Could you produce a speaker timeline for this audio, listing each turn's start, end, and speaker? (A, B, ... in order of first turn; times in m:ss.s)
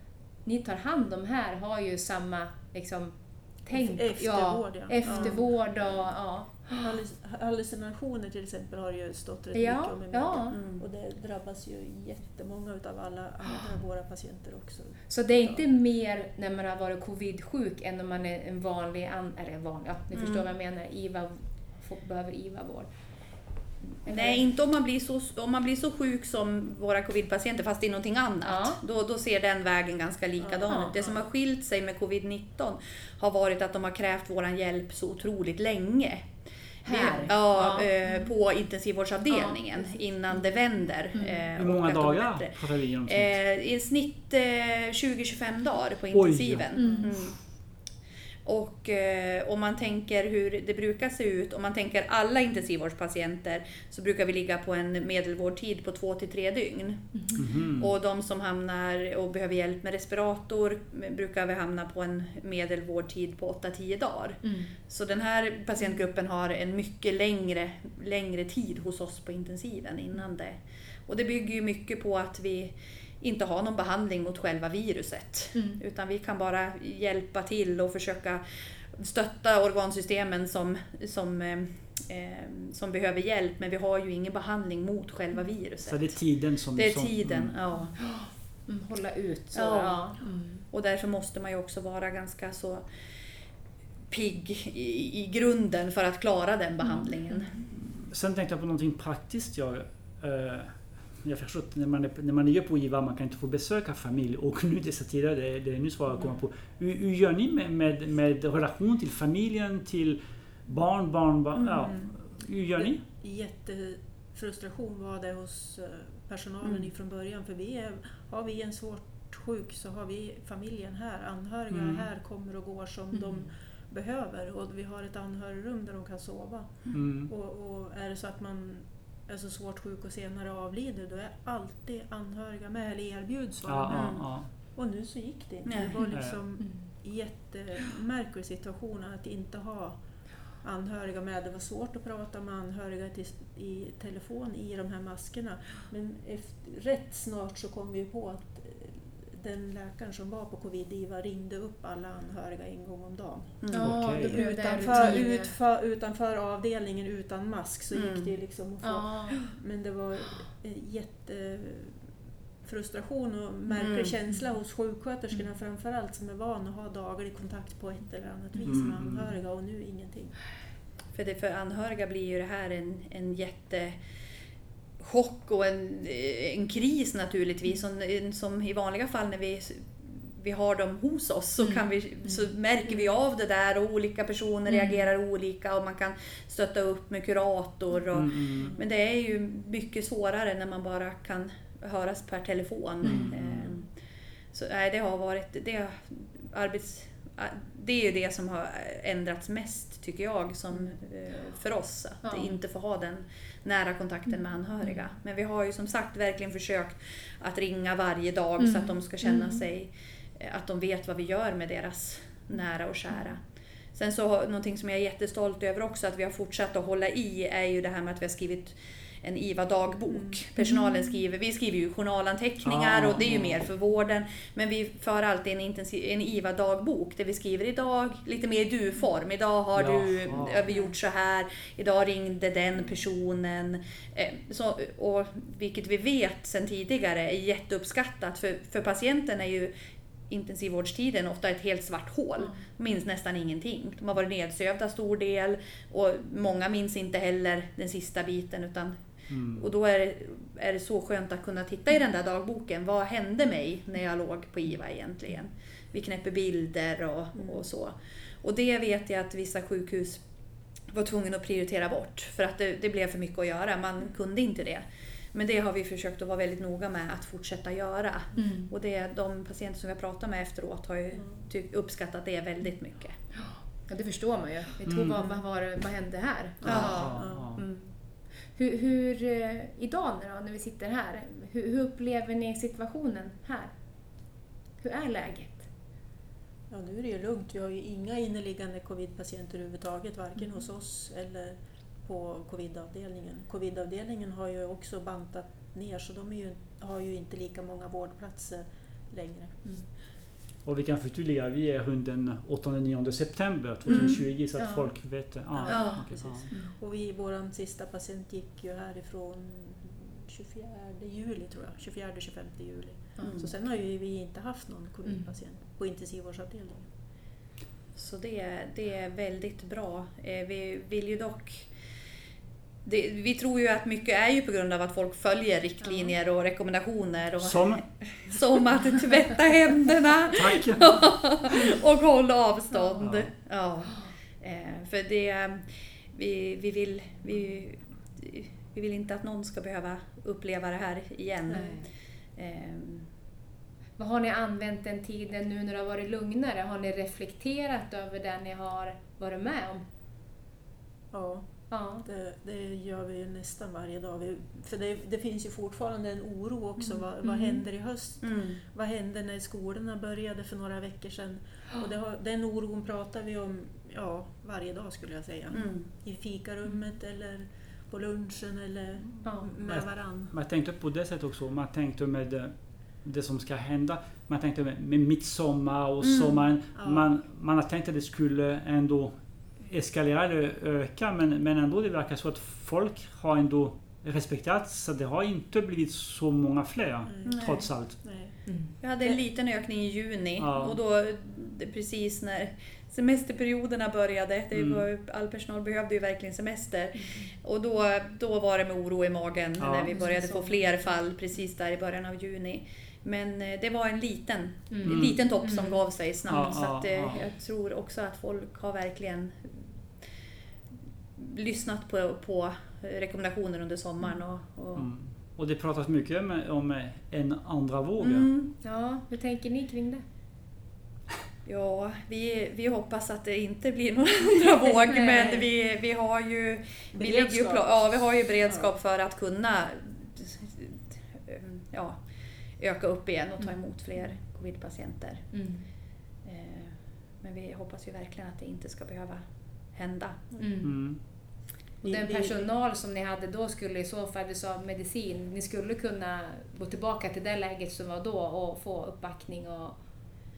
0:00.4-0:06.8 A
0:03.7-0:06.0 B
0:06.8-0:15.6 B
0:09.5-0:10.6 A
0:10.5-0:10.8 C
0:15.1-0:22.9 A
0:20.1-0:20.5 C
0:24.0-0:24.4 A
0:24.0-0:36.3 C
0:28.4-0:28.8 A
0:30.4-0:31.2 B
0:30.7-0:30.9 A
0:36.8-0:38.3 A
0:36.8-0:47.6 C
0:39.3-0:39.6 A
0:41.1-0:41.5 A
0:41.6-0:43.4 D
0:46.1-0:47.2 D
0:46.7-0:47.1 A
0:46.8-0:47.1 B
0:48.4-1:18.4 C
0:57.1-0:57.5 A
0:57.4-0:57.9 D
1:04.4-1:04.7 A
1:15.5-1:15.8 A
1:18.9-1:26.2 C
1:25.8-1:27.5 D
1:26.7-1:28.1 C
1:28.0-1:30.6 A
1:29.5-1:32.9 C
1:34.1-1:37.6 C
1:36.8-1:37.5 A
1:37.7-1:53.0 D
1:51.5-1:51.9 C
1:51.8-2:42.0 B
1:56.6-1:56.9 C
2:01.7-2:02.1 D
2:03.1-2:03.4 A
2:06.9-2:07.3 D
2:13.6-2:14.5 D
2:13.9-2:14.2 C
2:15.6-2:16.0 C
2:16.0-2:16.9 A
2:16.1-2:16.4 D
2:33.6-2:34.0 C
2:33.7-2:35.5 A
2:33.8-2:34.4 D
2:37.9-2:38.3 C
2:38.8-2:39.4 A
2:42.6-2:50.4 B
2:43.7-2:44.1 C
2:48.6-2:49.3 D
2:51.1-2:54.0 C
2:55.0-3:13.9 C
3:01.6-3:02.4 A
3:04.7-3:05.0 A
3:08.1-3:08.7 D
3:08.5-3:08.8 B
3:13.0-3:13.7 D
3:14.5-3:33.4 C
3:22.2-3:22.5 A
3:28.6-3:29.6 A
3:33.9-3:59.7 C
3:40.1-3:40.4 B
3:40.6-3:41.0 A
3:42.6-3:43.7 D
3:49.8-3:50.8 D
4:00.3-4:09.0 C
4:09.3-4:09.7 D
4:09.6-4:20.2 C
4:17.4-4:17.7 B
4:20.9-4:33.2 C
4:28.4-4:28.7 A
4:31.1-4:31.4 B
4:33.3-4:37.9 A
4:34.8-4:35.2 D
4:35.1-4:35.4 B
4:36.6-4:37.6 D
4:36.6-4:37.6 B
4:36.6-4:37.2 C
4:38.5-4:44.3 A
4:44.8-4:45.7 A
4:46.7-4:59.6 B
5:00.6-5:06.5 D
5:03.9-5:04.2 C
5:03.9-5:05.2 A
5:05.5-5:16.9 B
5:05.7-5:06.4 C
5:13.2-5:13.5 C
5:17.9-5:21.7 C
5:22.8-5:43.1 C
5:25.8-5:26.1 A
5:27.4-5:27.9 D
5:30.3-5:31.3 D
5:33.0-5:33.3 D
5:41.5-5:41.9 A
5:44.0-5:49.8 A
5:51.1-6:10.3 B
5:51.7-5:52.0 A
5:57.2-5:57.6 A
5:58.2-5:58.6 C
6:05.5-6:05.9 C
6:09.2-6:09.5 A
6:09.6-6:28.0 D
6:16.0-6:16.5 C
6:16.7-6:17.1 B
6:27.0-6:28.4 B
6:27.2-6:27.7 C
6:28.4-6:28.7 A
6:28.8-6:49.6 C
6:30.4-6:30.8 D
6:34.5-6:34.8 D
6:39.6-6:40.0 D
6:39.9-6:40.7 A
6:44.7-6:46.6 A
6:44.8-6:45.2 D
6:46.3-6:47.3 D
6:51.2-6:54.9 C
6:54.8-6:58.3 D
6:58.0-6:58.5 C
6:58.6-7:00.0 A
7:01.4-7:12.0 C
7:04.9-7:05.4 A
7:06.9-7:08.7 B
7:12.6-7:15.4 C
7:15.3-7:15.6 A
7:16.2-7:20.3 C
7:20.3-7:20.6 B
7:20.4-7:21.0 A
7:20.6-7:21.0 D
7:21.8-7:22.5 B
7:21.8-7:29.8 A